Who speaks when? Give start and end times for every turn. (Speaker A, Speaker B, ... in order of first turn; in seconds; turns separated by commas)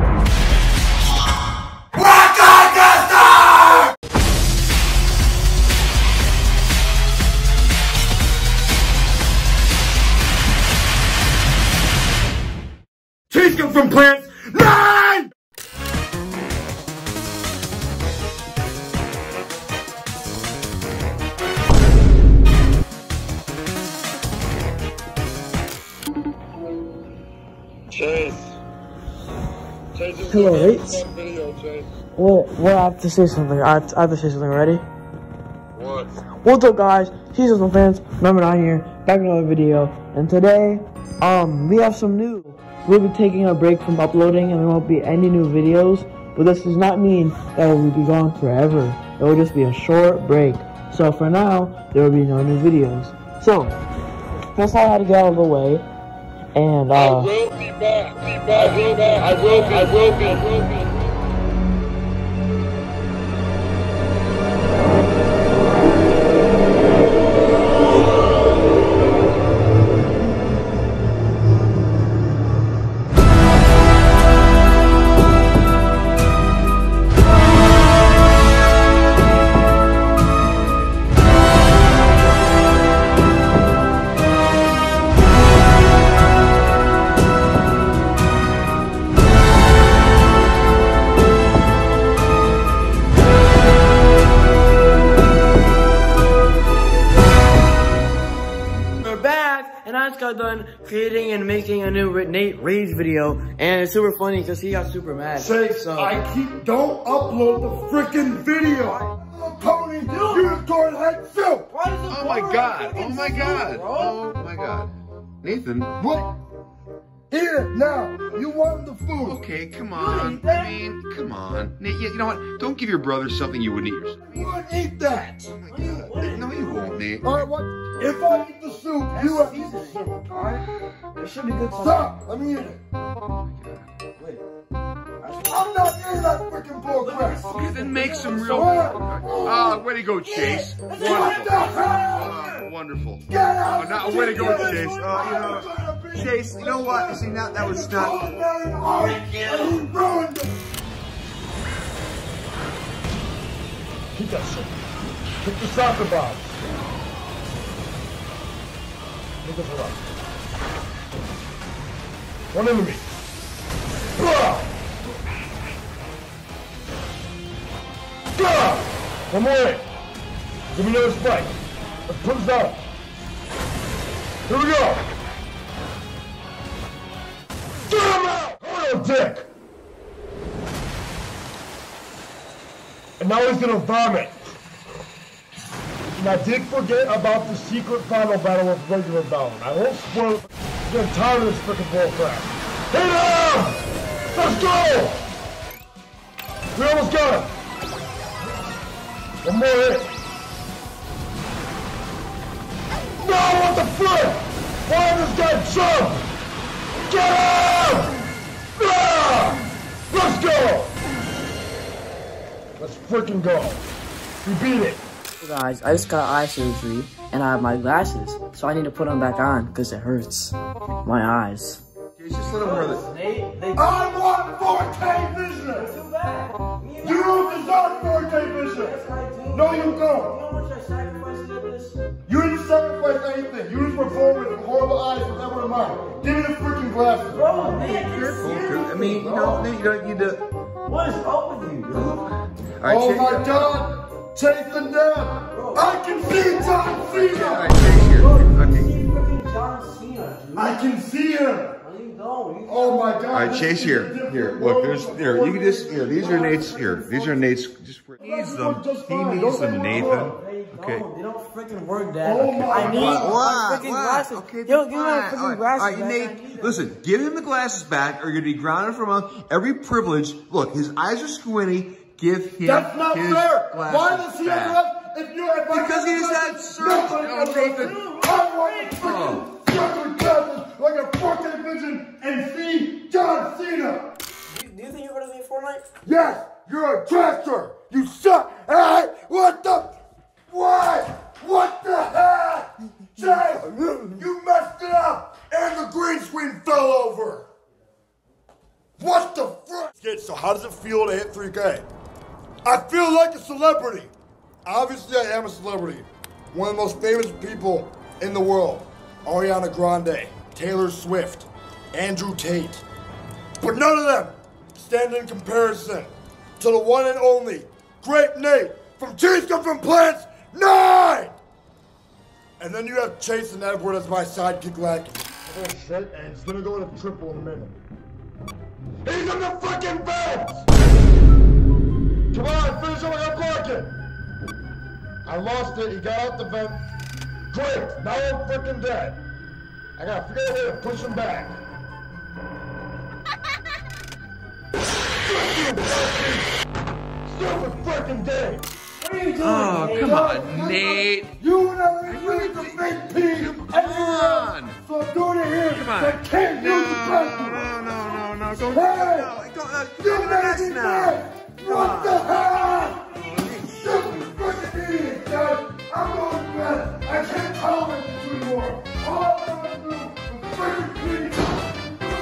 Speaker A: 2.0-3.5, Speaker B: 13.3-15.3, Speaker C: 27.9-28.5, Speaker D: 30.2-31.1, Speaker C: 31.1-31.9, Speaker D: 32.1-34.9, Speaker D: 35.9-53.8, Speaker D: 54.5-55.9, Speaker D: 56.5-57.5, Speaker C: 57.4-60.8, Speaker D: 59.3-60.0, Speaker D: 99.0-106.2, Speaker B: 105.3-111.7, Speaker D: 110.1-110.6, Speaker D: 111.7-114.2, Speaker A: 112.1-114.9, Speaker A: 115.4-115.9, Speaker B: 116.0-116.4, Speaker B: 117.3-119.4, Speaker A: 119.2-124.6, Speaker D: 119.9-120.8, Speaker B: 124.2-125.5, Speaker A: 125.5-127.5, Speaker D: 125.7-127.0, Speaker B: 127.2-130.4, Speaker D: 129.1-132.1, Speaker B: 131.7-132.8, Speaker A: 133.4-133.9, Speaker D: 134.2-134.4, Speaker D: 135.2-135.7, Speaker B: 135.4-137.4, Speaker D: 137.0-139.4, Speaker A: 137.5-143.2, Speaker B: 138.5-139.8, Speaker D: 140.3-142.1, Speaker B: 140.6-142.7, Speaker B: 143.3-150.7, Speaker A: 143.8-148.2, Speaker D: 144.1-145.3, Speaker D: 149.0-149.8, Speaker B: 154.2-154.8, Speaker B: 155.4-156.5, Speaker B: 159.4-160.1, Speaker B: 162.5-163.1, Speaker B: 164.2-164.7, Speaker B: 168.3-169.9, Speaker B: 170.7-171.6, Speaker B: 172.1-172.9, Speaker B: 174.5-175.1, Speaker B: 177.9-179.5, Speaker B: 183.2-184.4, Speaker B: 186.2-195.2, Speaker B: 196.8-197.6, Speaker B: 199.4-200.1, Speaker B: 203.2-206.3, Speaker B: 207.1-208.2, Speaker B: 208.8-210.9, Speaker B: 212.8-213.8, Speaker B: 214.4-215.0, Speaker D: 215.4-221.8, Speaker A: 222.2-223.0, Speaker D: 222.5-223.9, Speaker B: 223.8-225.9, Speaker D: 225.7-232.0, Speaker B: 227.0-228.9, Speaker B: 229.5-230.4, Speaker B: 232.3-237.5, Speaker D: 237.3-239.7, Speaker A: 237.8-240.4, Speaker B: 239.2-239.6, Speaker D: 240.9-242.3, Speaker A: 241.9-243.8, Speaker B: 242.8-247.8, Speaker D: 245.5-250.8, Speaker A: 247.2-248.9, Speaker B: 250.6-251.8, Speaker D: 251.8-253.2, Speaker B: 252.7-256.6, Speaker A: 253.3-261.1, Speaker D: 256.2-257.4, Speaker B: 258.2-260.4, Speaker D: 259.8-266.9, Speaker B: 262.2-263.4, Speaker A: 262.6-274.8, Speaker B: 272.6-284.1, Speaker A: 275.7-278.0, Speaker D: 277.7-279.2, Speaker A: 279.0-279.5, Speaker D: 284.5-285.9, Speaker B: 286.1-297.5, Speaker D: 293.7-294.1, Speaker B: 299.0-301.9, Speaker B: 302.6-304.1, Speaker B: 304.6-312.8, Speaker B: 313.6-321.4, Speaker B: 322.6-327.8, Speaker B: 329.0-330.7, Speaker B: 332.3-334.0, Speaker B: 335.3-336.8, Speaker B: 337.5-339.2, Speaker B: 340.0-341.6, Speaker B: 345.2-346.5, Speaker B: 347.3-348.7, Speaker D: 349.0-350.4, Speaker A: 349.4-351.4, Speaker B: 350.0-357.9, Speaker A: 352.0-354.8, Speaker A: 355.7-362.3, Speaker B: 358.7-359.3, Speaker B: 360.0-371.8, Speaker A: 363.1-364.2